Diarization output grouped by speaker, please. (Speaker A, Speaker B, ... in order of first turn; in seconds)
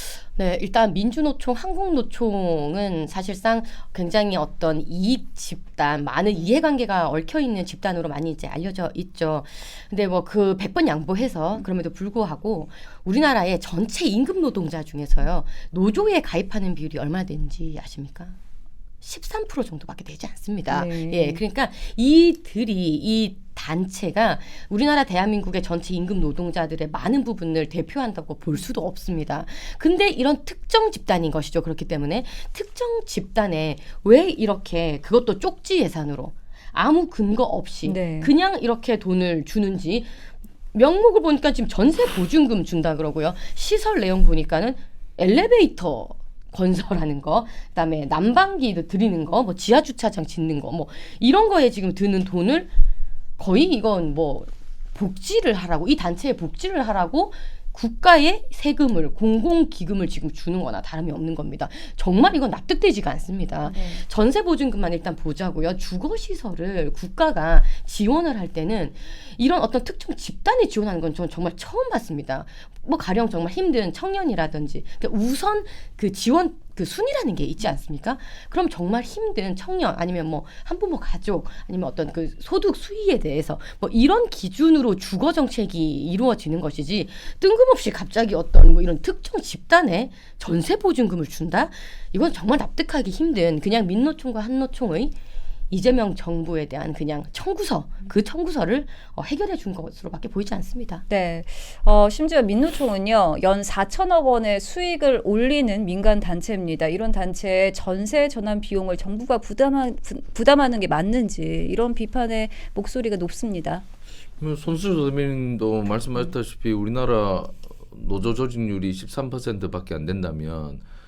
Speaker A: 0.3-18.4, 19.0-40.1, 40.7-52.7, 53.4-95.2, 95.7-101.0
Speaker B: 20.7-21.4, 37.8-38.3, 63.6-64.0, 101.1-113.8
Speaker C: 114.4-120.8